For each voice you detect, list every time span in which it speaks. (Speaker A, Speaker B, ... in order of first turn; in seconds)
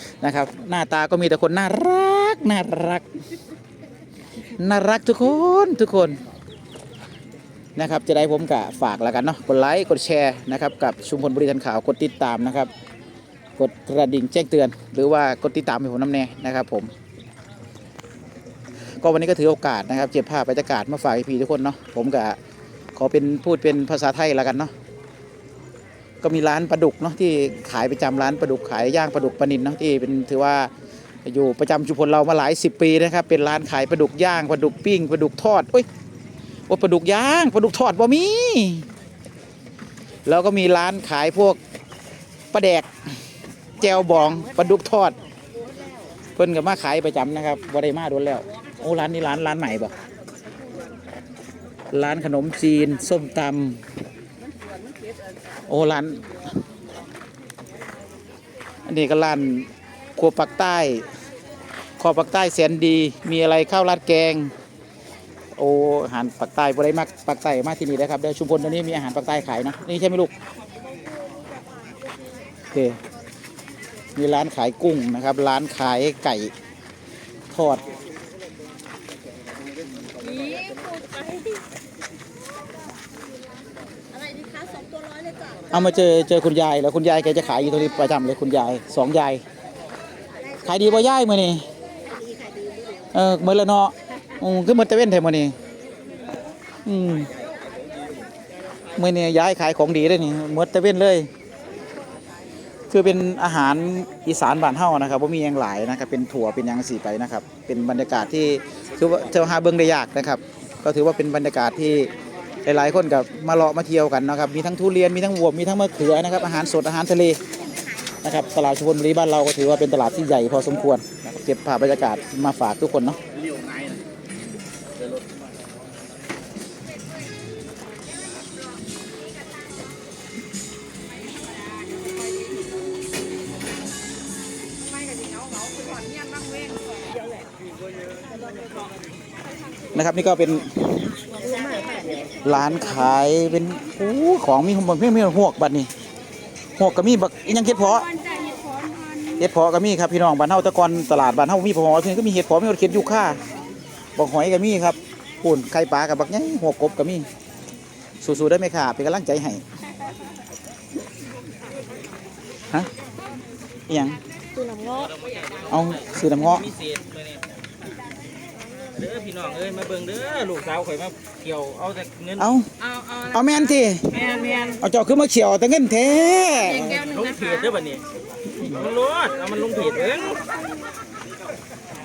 Speaker A: 0.2-3.0, 4.6-6.2, 7.8-12.7, 13.6-16.9, 19.0-22.4, 22.9-24.7, 26.2-30.7, 31.2-35.9, 36.7-38.9, 40.2-41.6, 42.5-43.1, 43.8-45.1, 46.4-49.9, 51.9-53.8, 55.7-56.3, 58.9-61.1, 62.0-64.5, 65.5-70.3, 72.7-73.0, 74.2-76.5, 77.5-77.9, 85.7-89.4, 90.6-91.7, 93.1-95.5, 96.8-97.3, 99.0-101.3, 102.9-112.1, 112.6-117.4, 118.2-123.2, 139.9-141.2, 142.4-145.9, 146.8-148.2, 149.3-153.4, 154.2-157.3, 158.2-159.6, 163.9-164.2, 165.7-166.7, 172.4-177.1
Speaker B: 80.2-81.5, 84.2-85.5, 135.0-136.8, 141.5-142.1, 148.2-149.3, 164.6-164.9
Speaker C: 123.5-123.8, 164.9-167.4, 168.9-172.4, 174.2-174.7, 176.9-178.1, 178.6-180.5